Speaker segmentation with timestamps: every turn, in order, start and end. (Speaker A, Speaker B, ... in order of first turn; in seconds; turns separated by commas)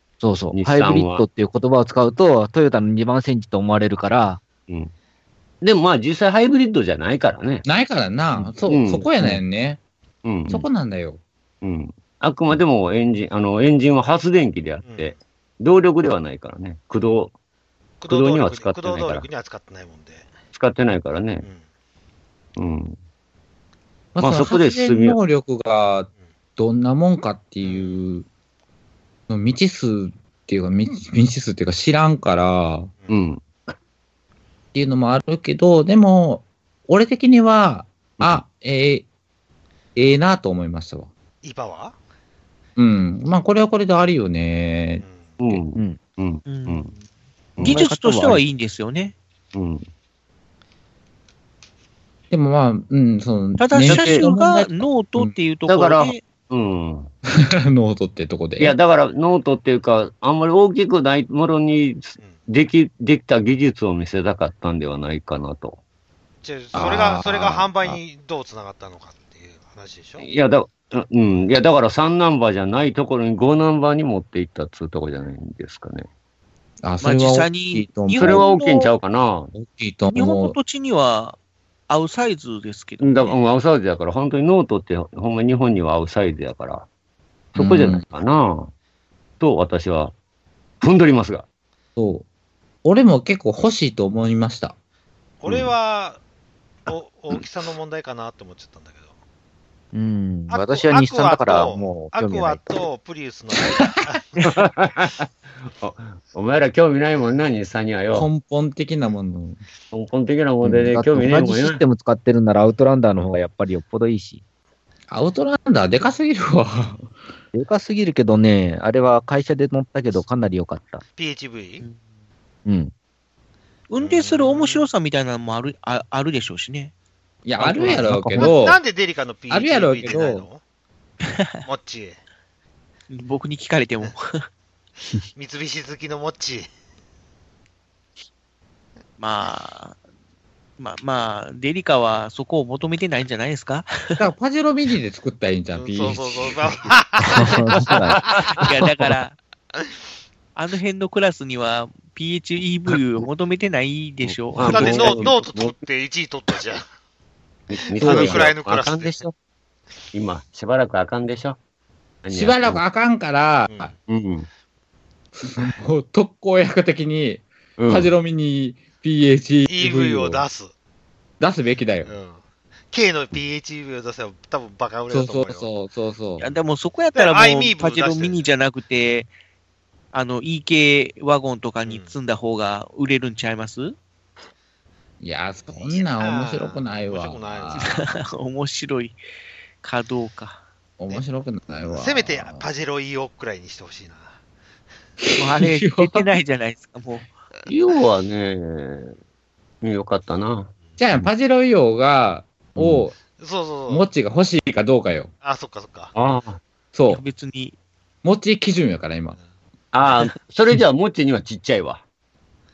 Speaker A: 0.2-4.4, Speaker B: 0.5-1.2, Speaker B: 5.6-7.7, Speaker C: 7.7-9.8, Speaker B: 8.7-9.1, Speaker B: 10.2-10.7, Speaker C: 10.5-11.2, Speaker B: 11.6-17.3, Speaker D: 14.8-15.2, Speaker D: 18.0-20.3, Speaker B: 18.1-19.3, Speaker B: 20.5-21.5, Speaker B: 22.6-23.0, Speaker C: 24.1-28.3, Speaker B: 24.2-25.2, Speaker D: 27.6-28.0, Speaker C: 29.3-32.9, Speaker B: 33.1-33.5, Speaker C: 34.7-39.1, Speaker C: 40.0-41.1, Speaker D: 41.4-42.0, Speaker C: 42.8-45.0, Speaker D: 45.0-45.4, Speaker B: 45.4-46.9, Speaker A: 45.7-46.0, Speaker E: 46.5-47.0, Speaker B: 47.6-47.8, Speaker A: 47.6-48.4, Speaker E: 47.6-49.1, Speaker B: 49.5-49.9, Speaker C: 52.3-55.4, Speaker E: 53.6-56.2, Speaker B: 53.9-54.2, Speaker B: 55.7-57.1, Speaker C: 57.4-58.8, Speaker B: 58.6-65.8, Speaker D: 66.4-70.3, Speaker C: 66.7-68.0, Speaker B: 70.2-76.1, Speaker C: 76.8-78.5, Speaker E: 77.0-78.9, Speaker B: 78.2-79.5, Speaker C: 79.5-80.6, Speaker E: 80.1-81.4, Speaker E: 81.9-83.4, Speaker B: 83.0-86.9, Speaker C: 87.5-88.0, Speaker B: 87.6-88.7, Speaker B: 89.4-90.1, Speaker B: 90.8-91.5, Speaker C: 92.0-92.2, Speaker C: 92.8-94.8, Speaker D: 95.4-96.2, Speaker B: 95.5-95.7, Speaker D: 96.9-99.1, Speaker A: 99.9-102.9, Speaker D: 100.5-104.6, Speaker B: 104.4-108.3, Speaker C: 108.1-109.6, Speaker B: 109.9-111.8, Speaker A: 110.6-114.4, Speaker C: 115.1-117.1, Speaker A: 117.5-121.0, Speaker D: 121.2-121.8, Speaker A: 122.7-122.9, Speaker E: 123.9-126.9, Speaker D: 124.0-124.9, Speaker C: 127.5-128.8, Speaker A: 127.6-128.5, Speaker D: 128.4-130.6, Speaker C: 129.5-130.5, Speaker E: 131.2-131.6, Speaker D: 131.7-132.2, Speaker E: 133.1-134.5, Speaker D: 135.3-136.7, Speaker E: 139.2-140.0, Speaker E: 140.8-144.2, Speaker C: 144.2-146.8, Speaker D: 145.8-148.4, Speaker A: 147.3-148.2, Speaker E: 148.5-149.4, Speaker E: 150.6-155.3, Speaker B: 154.2-155.8, Speaker D: 154.7-156.8, Speaker B: 157.7-159.3, Speaker D: 158.0-159.3, Speaker C: 158.0-158.5, Speaker B: 160.1-161.6, Speaker B: 162.2-162.8, Speaker C: 162.3-163.9, Speaker B: 164.1-164.5, Speaker C: 165.4-170.4, Speaker B: 167.8-168.1, Speaker D: 169.7-170.7, Speaker C: 171.4-172.1, Speaker D: 172.1-172.4, Speaker D: 172.9-175.7, Speaker C: 175.1-176.5, Speaker E: 176.4-179.3, Speaker D: 177.2-178.4, Speaker E: 180.1-183.9, Speaker D: 181.8-182.2, Speaker C: 185.2-188.0, Speaker D: 185.7-188.0, Speaker E: 187.8-189.2, Speaker E: 189.8-190.6, Speaker C: 191.0-192.7, Speaker D: 191.9-194.3, Speaker C: 195.2-196.3, Speaker E: 195.4-197.3, Speaker B: 197.7-199.1, Speaker B: 199.8-201.3, Speaker C: 201.0-203.2, Speaker B: 202.8-203.1, Speaker D: 203.4-204.1, Speaker C: 203.9-205.3, Speaker D: 205.4-206.1, Speaker B: 206.2-206.6, Speaker C: 206.9-207.2, Speaker E: 207.1-207.8, Speaker C: 208.2-209.4, Speaker B: 209.9-212.0